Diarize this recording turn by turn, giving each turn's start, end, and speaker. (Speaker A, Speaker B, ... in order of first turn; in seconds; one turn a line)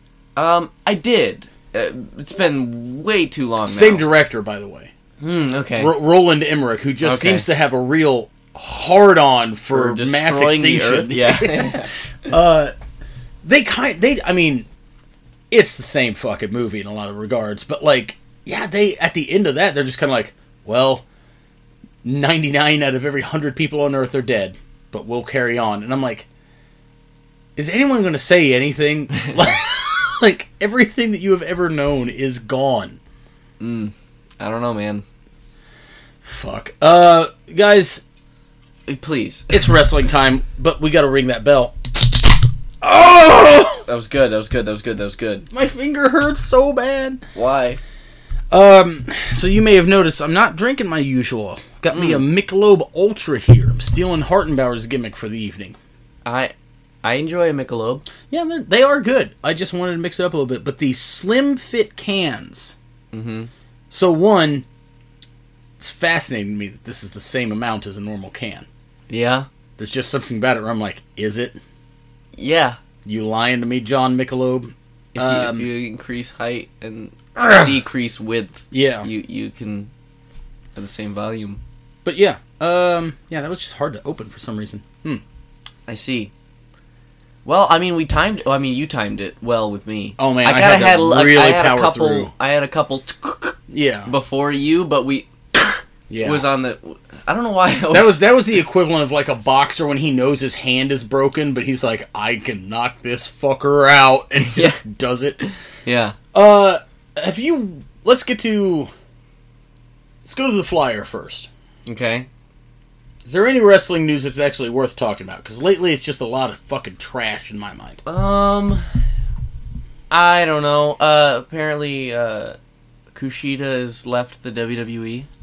Speaker A: 0.3-4.0
Speaker B: 3.6-4.9
Speaker A: 5.2-5.9
Speaker B: 5.8-12.7
Speaker A: 7.0-7.5
Speaker A: 9.7-11.9
Speaker B: 13.4-14.7
Speaker B: 15.5-21.0
Speaker B: 22.0-26.3
Speaker B: 27.6-33.0
Speaker A: 33.6-35.0
Speaker B: 36.2-38.0
Speaker A: 38.9-39.5
Speaker B: 39.5-41.8
Speaker B: 42.8-43.8
Speaker A: 43.9-45.5
Speaker B: 45.5-47.2
Speaker A: 47.3-47.8
Speaker B: 48.5-55.8
Speaker A: 51.9-52.2
Speaker A: 56.2-58.0
Speaker B: 58.3-62.8
Speaker A: 63.1-63.5
Speaker B: 63.9-64.6
Speaker B: 65.8-68.7
Speaker A: 69.1-69.5
Speaker B: 69.8-71.6
Speaker A: 72.4-72.8
Speaker B: 73.0-75.7
Speaker A: 75.1-79.9
Speaker B: 77.4-77.7
Speaker B: 78.7-79.1
Speaker A: 80.7-81.6
Speaker B: 82.0-85.2
Speaker A: 85.9-86.3
Speaker A: 87.4-98.2
Speaker B: 90.2-92.3
Speaker B: 93.7-94.1
Speaker B: 96.1-96.5
Speaker B: 97.9-105.4
Speaker A: 104.4-104.8
Speaker A: 105.4-106.2
Speaker B: 106.3-108.9
Speaker B: 110.2-111.5
Speaker A: 111.8-112.3
Speaker B: 113.2-118.0
Speaker A: 118.0-118.8
Speaker A: 120.1-122.6
Speaker A: 123.1-125.3